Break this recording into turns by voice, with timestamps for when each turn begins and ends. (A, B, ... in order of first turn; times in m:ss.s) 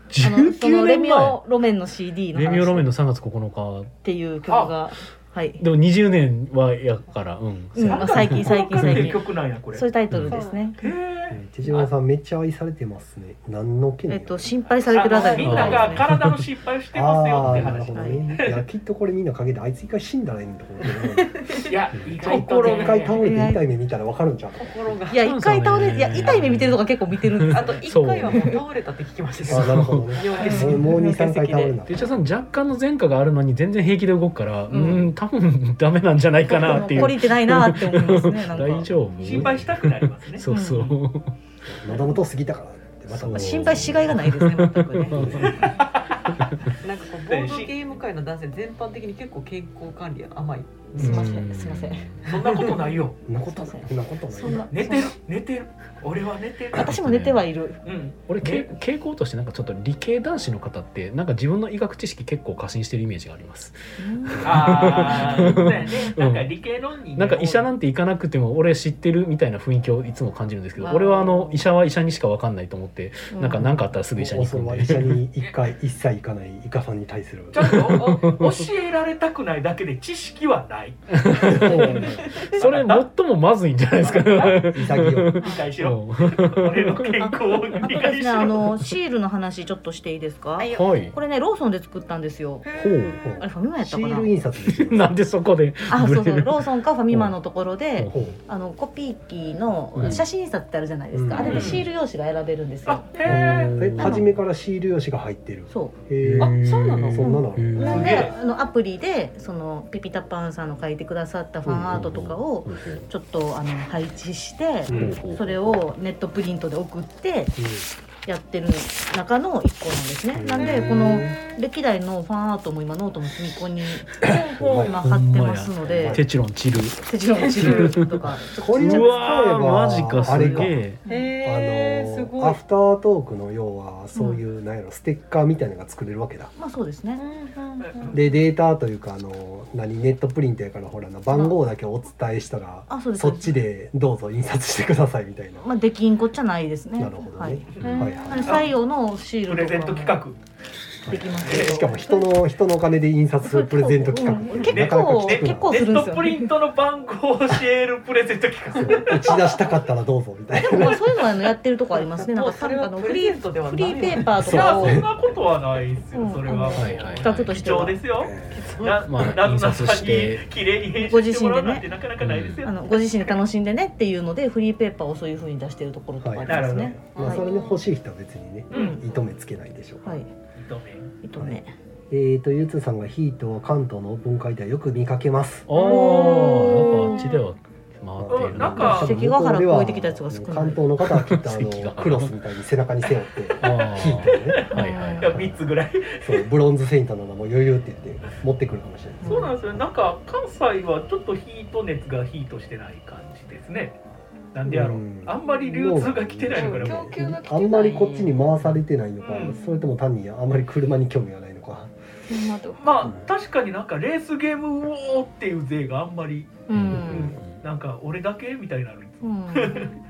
0:00.1-0:01.4 A
0:00.2-0:02.9 B
0:02.3-0:03.9 A
0:04.0-0:05.6 B
0:04.5-0:04.8 C
0:05.6-0:09.1 A
0:07.7-0:10.8 B
0:07.8-0:09.8 C
0:10.1-0:10.4 A
0:10.3-0:10.7 D
0:10.8-0:11.9 C
0:11.3-0:14.6 E
0:14.1-0:16.0 B
0:14.9-0:18.6 C
0:15.0-0:15.6 D
0:15.4-0:16.4 A
0:15.6-0:16.0 E
0:16.9-0:25.0 E
0:17.4-0:17.8 A
0:17.9-0:18.2 B
0:21.4-0:21.7 B
0:21.6-0:23.2 C
0:22.2-0:23.1 D
0:22.2-0:23.6 B
0:24.5-0:25.3 D
0:25.1-0:28.6 B
0:25.2-0:28.5 A
0:27.5-0:31.3 D
0:29.4-0:30.2 A
0:29.4-0:32.0 E
0:30.4-0:31.7 B
0:30.4-0:30.7 C
0:31.9-0:41.3 A
0:34.7-0:35.1 B
0:36.4-0:39.0 B
0:39.2-0:41.0 C
0:40.5-0:40.8 B
0:41.6-0:44.1 E
0:43.1-0:45.5 A
0:43.3-0:45.7 B
0:45.1-0:45.7 E
0:45.4-0:46.1 C
0:46.4-0:46.7 A
0:46.8-0:51.3 D
0:47.3-0:47.7 C
0:50.9-0:52.1 B
0:51.0-0:52.3 A
0:52.3-0:52.7 D
0:52.3-0:53.2 C
0:53.2-0:54.9 E
0:53.5-0:55.1 B
0:54.7-0:56.9 C
0:56.7-0:57.8 B
0:56.8-0:57.4 A
0:57.8-0:58.7 C
0:58.3-1:06.5 A
1:04.0-1:05.6 B
1:04.4-1:07.7 C
1:07.1-1:15.2 A
1:10.8-1:11.7 B
1:13.3-1:13.8 B
1:14.1-1:17.8 E
1:17.5-1:23.1 C
1:17.6-1:18.7 A
1:21.1-1:27.2 A
1:21.4-1:22.4 E
1:24.0-1:24.7 C
1:24.3-1:25.4 E
1:25.4-1:28.7 C
1:27.2-1:32.6 B
1:30.6-1:31.1 D
1:30.7-1:31.2 A
1:32.6-1:33.1 D
1:32.8-1:33.2 A
1:33.2-1:35.1 E
1:33.4-1:34.3 B
1:34.7-1:37.3 A
1:35.9-1:44.2 B
1:38.0-1:38.3 A
1:38.1-1:38.4 E
1:40.0-1:40.2 A
1:41.1-1:41.8 E
1:41.4-1:41.9 C
1:42.8-1:43.7 C
1:43.2-1:46.6 E
1:43.3-1:44.2 A
1:46.2-1:48.2 A
1:46.4-1:47.3 D
1:47.1-1:48.2 E
1:47.2-1:57.6 B
1:47.8-1:48.3 C
1:51.6-1:52.2 E
1:51.9-1:53.1 A
1:54.9-1:55.2 E
1:54.9-1:55.7 A
1:57.6-1:57.9 E
1:58.2-2:06.2 B
2:00.3-2:01.4 E
2:00.5-2:00.9 D
2:04.4-2:05.0 E
2:04.9-2:08.2 A
2:05.8-2:06.2 E
2:07.0-2:09.6 B
2:07.3-2:08.0 D
2:07.6-2:10.8 E
2:08.7-2:11.0 A
2:10.1-2:11.3 B
2:11.0-2:12.6 D
2:11.4-2:16.5 E
2:14.1-2:14.4 B
2:16.6-2:17.2 B
2:17.2-2:18.2 D
2:17.8-2:18.1 C
2:18.1-2:25.7 E
2:21.3-2:21.6 B
2:22.9-2:23.5 B
2:25.6-2:27.7 B
2:27.0-2:28.6 E
2:27.8-2:28.6 D
2:28.2-2:30.2 B
2:28.4-2:28.7 C
2:29.4-2:30.4 C
2:31.0-2:36.0 E
2:31.0-2:32.4 B
2:31.4-2:31.8 C
2:33.4-2:36.5 B
2:34.5-2:39.6 C
2:38.8-2:41.0 E
2:40.6-2:45.0 B
2:41.9-2:44.7 D
2:44.3-2:45.1 E
2:44.4-2:53.4 C
2:46.1-2:48.0 B
2:46.7-2:47.7 A
2:48.1-2:48.7 E
2:48.5-2:49.1 D
2:49.0-2:50.4 A
2:51.0-2:51.8 B
2:52.2-2:52.6 A
2:52.6-2:57.4 B
2:56.2-3:00.2 E
2:56.5-2:56.9 C
2:57.1-2:57.9 D
2:58.7-2:59.0 C
2:58.7-2:59.0 B
3:00.6-3:01.1 C
3:01.2-3:01.7 B
3:02.1-3:05.7 E
3:05.7-3:09.0 A
3:05.7-3:07.3 B
3:08.2-3:14.7 E
3:08.3-3:09.2 C
3:08.8-3:10.8 B
3:11.0-3:12.4 A
3:13.6-3:15.3 A
3:14.3-3:14.6 C
3:14.7-3:15.3 B
3:15.2-3:16.5 C
3:15.2-3:15.6 E
3:16.2-3:19.5 E
3:19.2-3:19.5 B
3:19.2-3:24.0 C
3:24.5-3:27.2 C
3:24.6-3:31.9 E
3:26.5-3:28.5 D
3:29.2-3:29.6 C
3:32.3-3:33.1 B
3:32.8-3:39.9 C
3:36.7-3:37.3 B
3:36.7-3:37.6 A
3:37.0-3:37.4 E
3:39.2-3:39.9 B